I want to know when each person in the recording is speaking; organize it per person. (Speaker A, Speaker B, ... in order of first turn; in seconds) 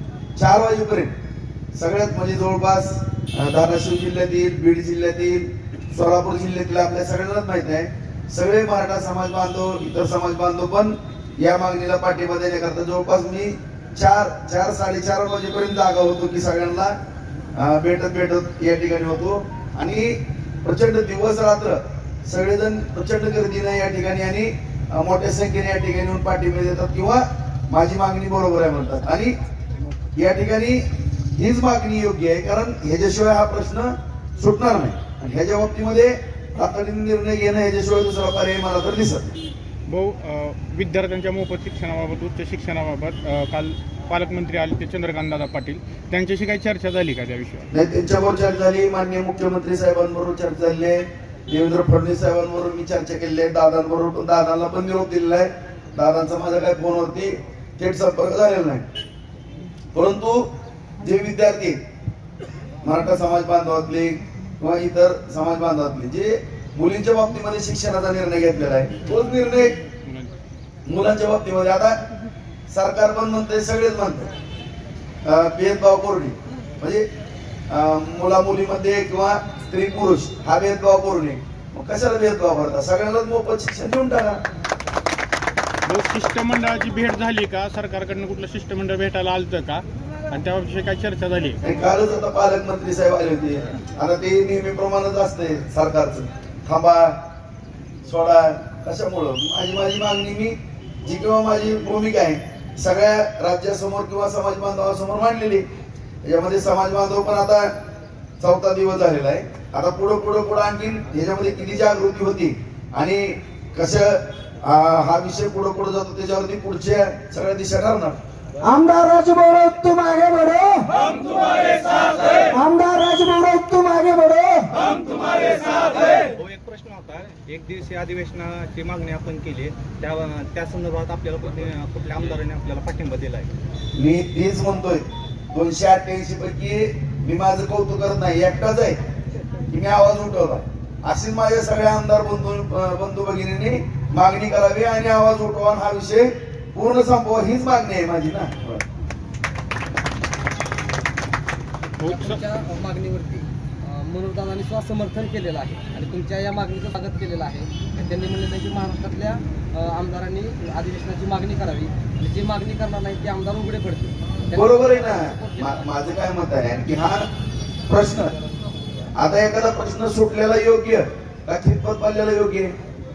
Speaker A: 0.4-1.1, 1.7-16.9, 17.6-29.4, 30.1-30.8, 31.3-39.3, 47.7-58.9, 59.9-60.5, 61.0-61.8, 62.8-69.7, 70.8-72.0, 72.7-74.3, 75.2-77.0, 77.7-84.4, 91.6-97.2, 98.0-105.6, 106.2-107.7, 108.4-118.2, 133.9-139.0, 139.7-148.8, 164.5-167.3, 167.9-168.3, 169.1-172.7
Speaker B: 39.9-47.7, 70.0-70.3, 85.8-91.6, 152.0-152.4
Speaker C: 118.6-121.2, 122.4-124.9
Speaker D: 125.5-133.5
Speaker E: 152.0-165.8